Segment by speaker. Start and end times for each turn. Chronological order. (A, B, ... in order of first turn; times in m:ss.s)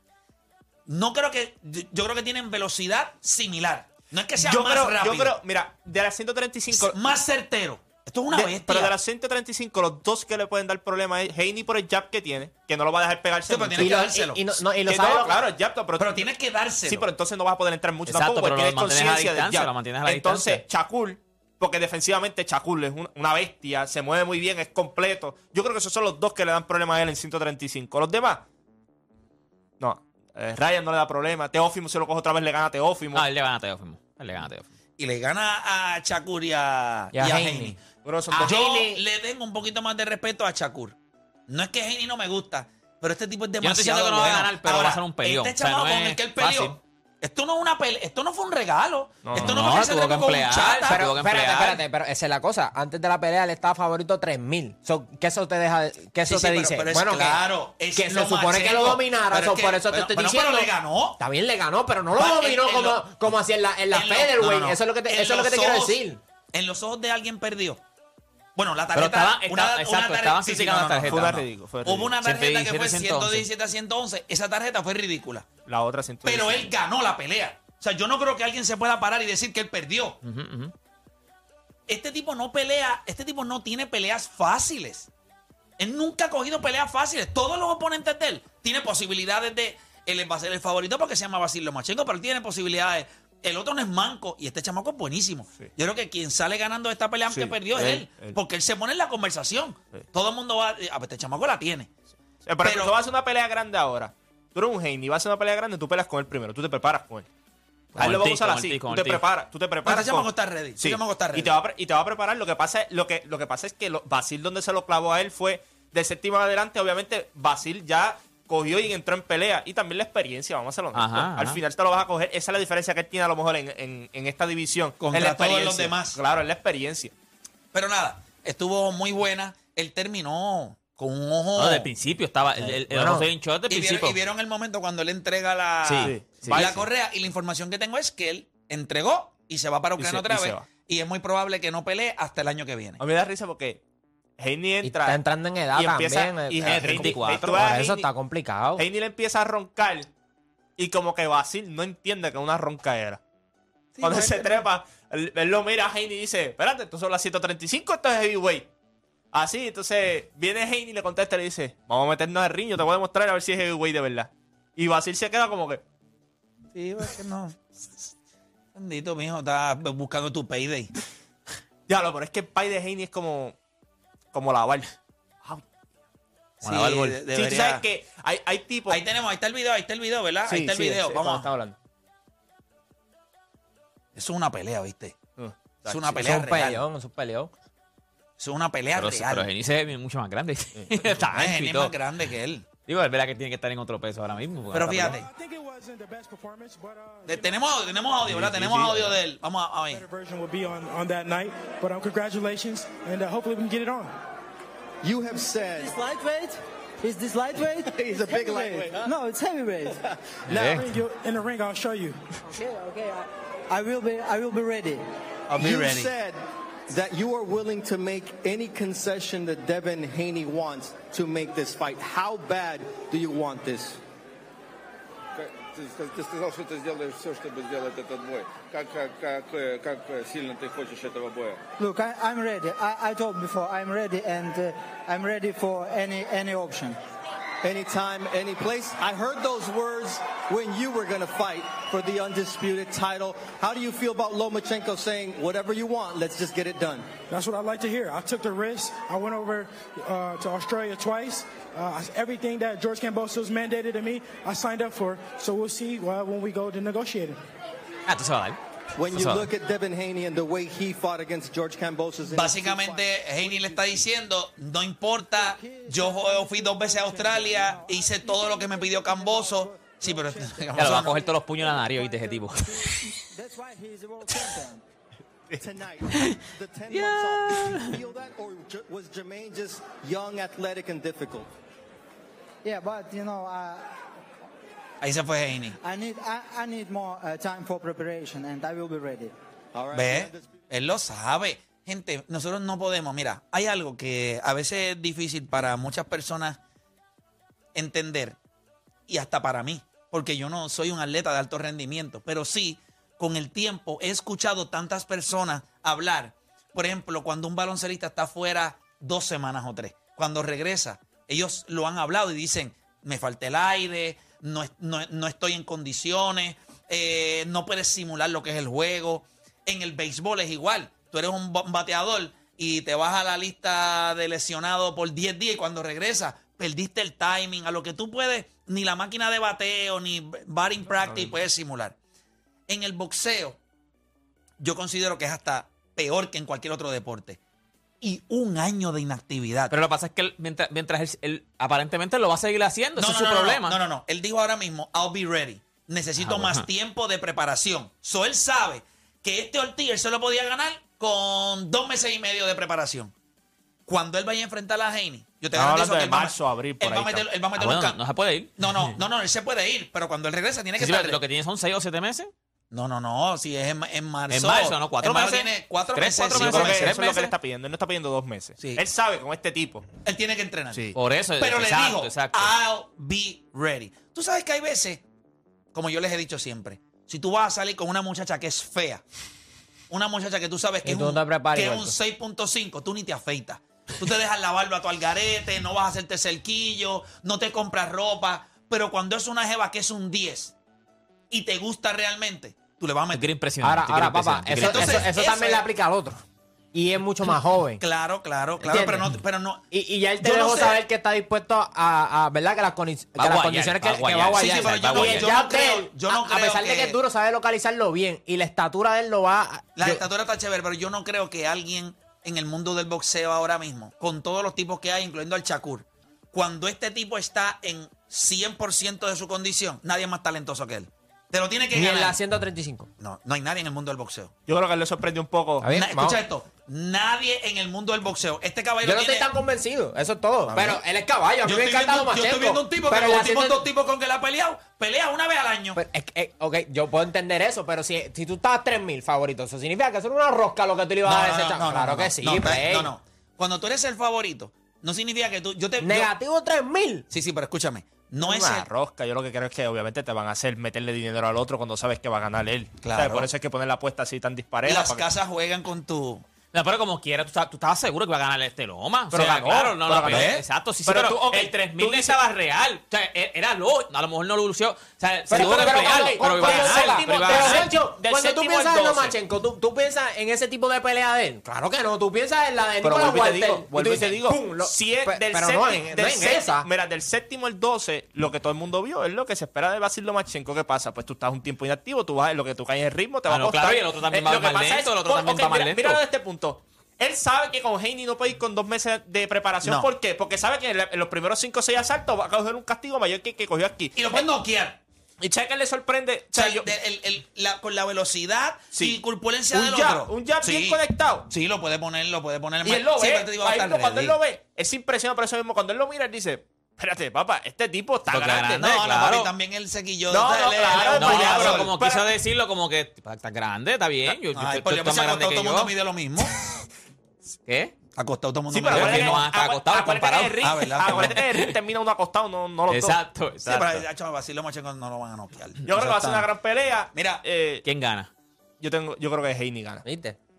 0:00.9-0:05.4 A
0:04.4-0:07.0 B
0:06.7-0:09.0 A
0:08.3-0:14.0 B
0:13.5-0:14.4 A
0:13.8-0:15.4 C
0:14.9-0:16.3 B
0:16.0-0:17.1 A
0:16.9-0:28.4 B
0:18.1-0:20.6 D
0:29.8-0:33.3 B
0:33.1-0:34.7 D
0:35.0-0:41.0 A
0:37.1-0:37.8 C
0:38.0-0:38.7 B
0:38.4-0:39.0 C
0:41.5-0:51.0 A
0:43.6-0:46.8 D
0:49.2-0:49.8 B
0:49.4-0:51.8 D
0:50.9-1:06.2 C
0:56.3-1:01.2 A
1:02.2-1:03.1 A
1:03.9-1:06.0 A
1:06.5-1:07.8 A
1:08.6-1:15.5 A
1:08.9-1:11.4 D
1:11.0-1:12.1 B
1:12.2-1:13.5 D
1:15.7-1:16.7 B
1:16.2-1:20.2 A
1:20.2-1:20.7 D
1:21.9-1:25.1 A
1:25.8-1:41.9 A
1:37.3-1:38.4 B
1:42.5-1:47.3 B
1:42.6-1:43.0 A
1:48.0-2:07.1 B
1:48.0-1:49.2 D
1:49.8-1:51.6 A
2:00.9-2:01.6 D
2:05.0-2:06.2 A
2:07.7-2:11.9 A
2:11.6-2:14.2 D
2:12.6-2:13.3 C
2:13.7-2:23.0 A
2:15.8-2:16.7 D
2:16.0-2:16.9 B
2:20.0-2:20.7 B
2:23.0-2:23.8 B
2:24.4-2:28.1 B
2:24.8-2:28.8 C
2:26.6-2:27.6 D
2:28.8-2:30.1 B
2:30.8-2:33.2 B
2:34.0-2:38.7 B
2:39.3-2:45.8 B
2:46.7-2:47.6 A
2:48.8-2:50.9 A
2:51.9-2:53.6 B
2:54.3-2:54.9 B
2:56.6-2:57.8 A
2:56.7-2:59.0 B
2:58.9-3:01.5 A
3:00.5-3:01.8 B
3:04.2-3:05.2 A
3:05.4-3:06.0 B
3:05.9-3:06.8 A
3:06.1-3:07.5 C
3:08.4-3:09.5 A
3:09.0-3:11.9 D
3:10.8-3:11.1 B
3:11.3-3:12.7 A
3:12.9-3:15.1 D
3:14.7-3:15.3 A
3:15.0-3:17.6 E
3:17.3-3:20.0 A
3:18.2-3:19.2 B
3:19.9-3:24.1 E
3:25.0-3:26.0 F
3:25.8-3:30.0 G
3:27.9-3:29.1 F
3:30.5-3:30.8 F
3:30.5-3:30.8 D
3:30.6-3:32.2 E
3:32.5-3:35.0 G
3:35.5-3:36.1 A
3:35.6-3:44.0 F
3:45.4-3:51.6 H
3:51.8-3:57.0 G
3:57.6-4:07.1 F
4:07.3-4:17.4 E
4:18.1-4:18.6 D
4:19.0-4:24.1 F
4:19.1-4:19.5 D
4:22.3-4:31.2 A
4:25.4-4:34.8 G
4:30.8-4:33.1 D
4:35.6-4:41.5 F
4:36.1-4:36.4 D
4:36.9-4:38.0 D
4:42.6-4:44.0 G
4:45.0-4:45.8 A
4:45.8-4:49.3 G
4:49.7-4:50.5 F
4:49.9-4:56.6 A
4:57.7-4:58.4 A
4:59.1-5:32.0 A
5:31.1-5:31.3 B
5:32.7-5:33.6 A
5:34.6-5:37.4 A
5:38.0-5:39.7 A
5:39.7-5:43.8 D
5:43.0-5:53.1 A
5:46.2-5:46.6 D
5:53.9-5:58.0 A
5:55.5-5:57.3 B
5:57.6-5:58.9 D
5:58.6-6:01.2 A
6:00.8-6:02.3 D
6:02.7-6:07.1 A
6:04.3-6:07.3 D
6:06.3-6:09.8 B
6:10.0-6:15.0 A
6:11.0-6:12.5 D
6:15.7-6:19.0 A
6:19.9-6:30.6 A
6:20.8-6:22.0 C
6:31.3-6:33.3 A
6:33.1-6:35.1 D
6:33.6-6:36.2 C
6:34.6-6:35.6 A
6:36.7-6:37.8 C
6:37.8-6:39.6 A
6:38.6-6:39.1 C
6:39.7-6:50.0 C
6:40.2-6:40.8 A
6:43.2-6:45.3 D
6:44.4-6:47.0 A
6:49.8-7:02.2 A
7:01.7-7:02.9 C
7:03.0-7:04.3 A
7:04.5-7:05.7 B
7:05.6-7:06.2 C
7:05.7-7:09.3 A
7:08.8-7:13.7 C
7:10.5-7:10.8 A
7:11.4-7:15.8 A
7:15.8-7:22.9 C
7:21.0-7:26.1 A
7:25.8-7:27.1 C
7:27.1-7:28.7 A
7:28.2-7:28.6 C
7:28.3-7:35.1 B
7:32.8-7:33.3 A
7:34.6-7:36.2 A
7:36.5-7:47.7 D
7:39.1-7:42.2 B
7:40.0-7:40.4 A
7:45.3-7:56.7 C
7:45.3-7:49.1 B
7:52.8-8:14.2 B
8:03.3-8:06.0 D
8:09.6-8:09.9 A
8:13.9-8:14.8 A
8:15.2-8:16.7 B
8:16.3-8:24.2 A
8:18.7-8:21.3 B
8:22.6-8:28.6 B
8:28.1-8:29.3 D
8:28.5-8:31.7 A
8:30.1-8:32.1 B
8:30.9-8:35.7 D
8:34.3-8:36.4 A
8:37.5-8:37.7 D
8:38.0-8:39.3 A
8:38.5-8:43.0 B
8:38.7-8:41.6 D
8:40.4-8:41.2 A
8:42.7-8:43.9 D
8:43.4-8:46.3 A
8:45.6-8:47.6 B
8:46.9-8:47.2 A
8:47.6-8:48.1 D
8:48.6-8:49.8 B
8:49.8-8:50.2 C